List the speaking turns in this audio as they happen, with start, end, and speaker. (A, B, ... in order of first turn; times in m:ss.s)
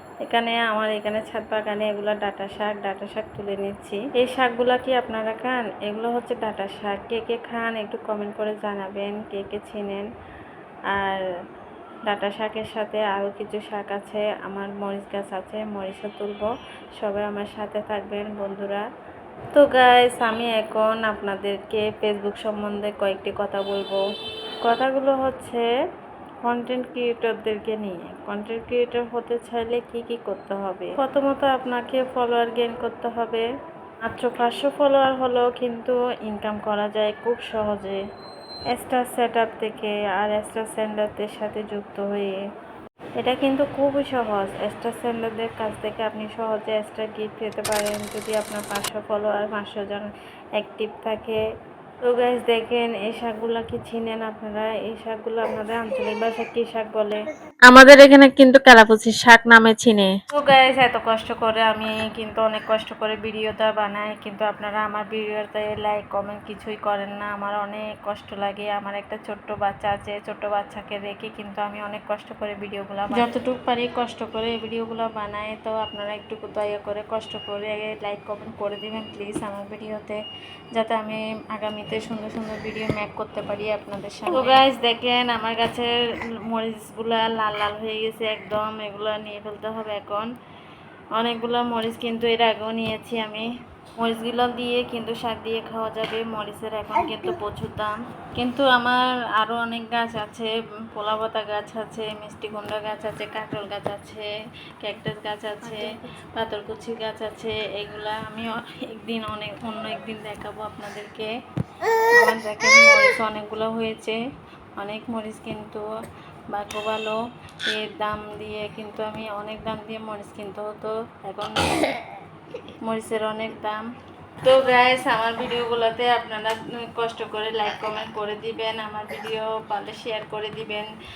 0:00.2-0:10.1 A
0:10.9-0:11.2 A
0:12.1-0:16.5 A
0:17.0-0:18.8 A
0:19.5-0:24.0 A
0:24.6-0:25.6 A
0:26.5-0:33.4 A
0:34.1-0:38.0 A
0:38.7-0:42.4 A
0:43.2-0:50.1 A
0:50.6-0:51.4 A
0:52.0-0:57.2 A
0:57.7-1:00.1 B
1:00.3-1:20.2 A
1:13.1-1:13.4 B
1:20.7-1:25.9 A
1:24.3-1:24.6 B
1:26.5-1:30.3 A
1:31.2-1:33.4 A
1:34.0-1:44.3 A
1:44.8-1:45.9 A
1:45.6-1:45.9 B
1:46.4-1:51.3 A
1:52.1-1:54.2 A
1:54.8-1:55.8 A
1:56.5-2:02.0 A
2:02.8-2:03.8 A
2:04.4-2:10.9 A